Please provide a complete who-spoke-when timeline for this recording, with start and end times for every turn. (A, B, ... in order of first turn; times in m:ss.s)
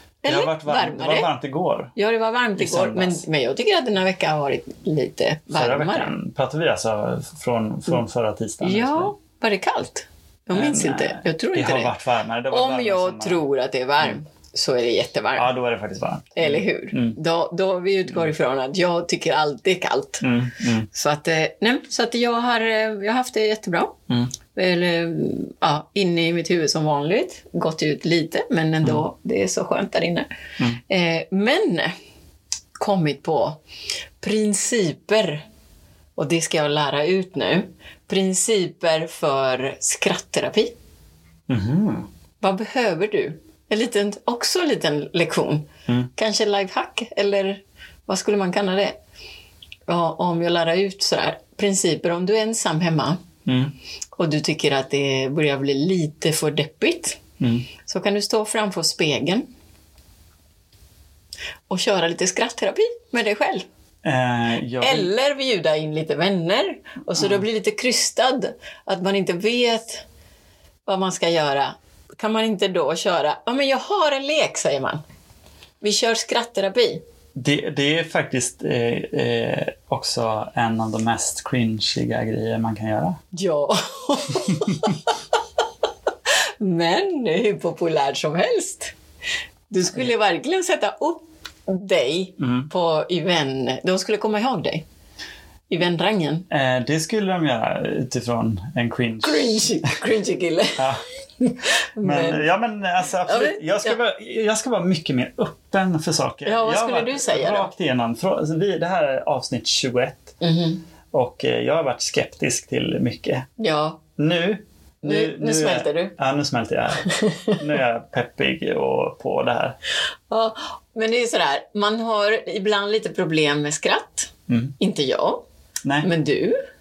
0:00.2-0:01.3 A
0:00.2-0:01.9 B
0:02.0-0:06.1 A
0:02.6-0:03.2 B
0:05.5-0:09.1 B
0:08.6-0:11.9 A
0:10.5-0:13.4 B
0:12.5-0:15.5 A
0:15.4-0:17.2 B
0:16.4-0:20.3 A
0:20.2-0:20.9 B
0:20.9-0:24.0 A
0:24.5-0:30.3 A
0:30.8-0:31.9 A
0:32.8-0:33.6 A
0:34.2-0:35.4 A
0:36.2-0:40.8 A
0:41.5-0:42.1 B
0:42.4-0:49.0 A
0:49.9-0:53.2 A
0:53.4-0:53.7 B
0:54.1-0:57.2 A
0:57.4-0:57.7 B
0:57.8-0:59.4 A
1:01.7-1:03.6 A
1:04.0-1:05.1 B
1:04.8-1:10.0 A
1:10.8-1:15.0 A
1:15.8-1:17.0 A
1:17.4-1:23.2 B
1:23.3-1:25.4 A
1:24.5-1:24.9 B
1:26.6-1:28.9 A
1:29.7-1:34.8 A
1:32.4-1:32.7 B
1:35.7-1:36.5 A
1:36.5-1:39.9 B
1:39.2-1:40.8 A
1:40.8-1:41.0 B
1:41.4-1:42.4 A
1:42.0-1:50.4 B
1:43.2-1:44.0 A
1:46.4-1:47.7 A
1:50.4-1:50.8 A
1:51.1-1:53.5 B
1:53.6-1:54.0 A
1:54.2-1:59.8 B
1:55.0-1:56.1 A
1:57.1-1:57.6 A
2:00.3-2:05.4 A
2:04.5-2:04.8 B
2:05.8-2:06.1 B
2:06.0-2:06.6 A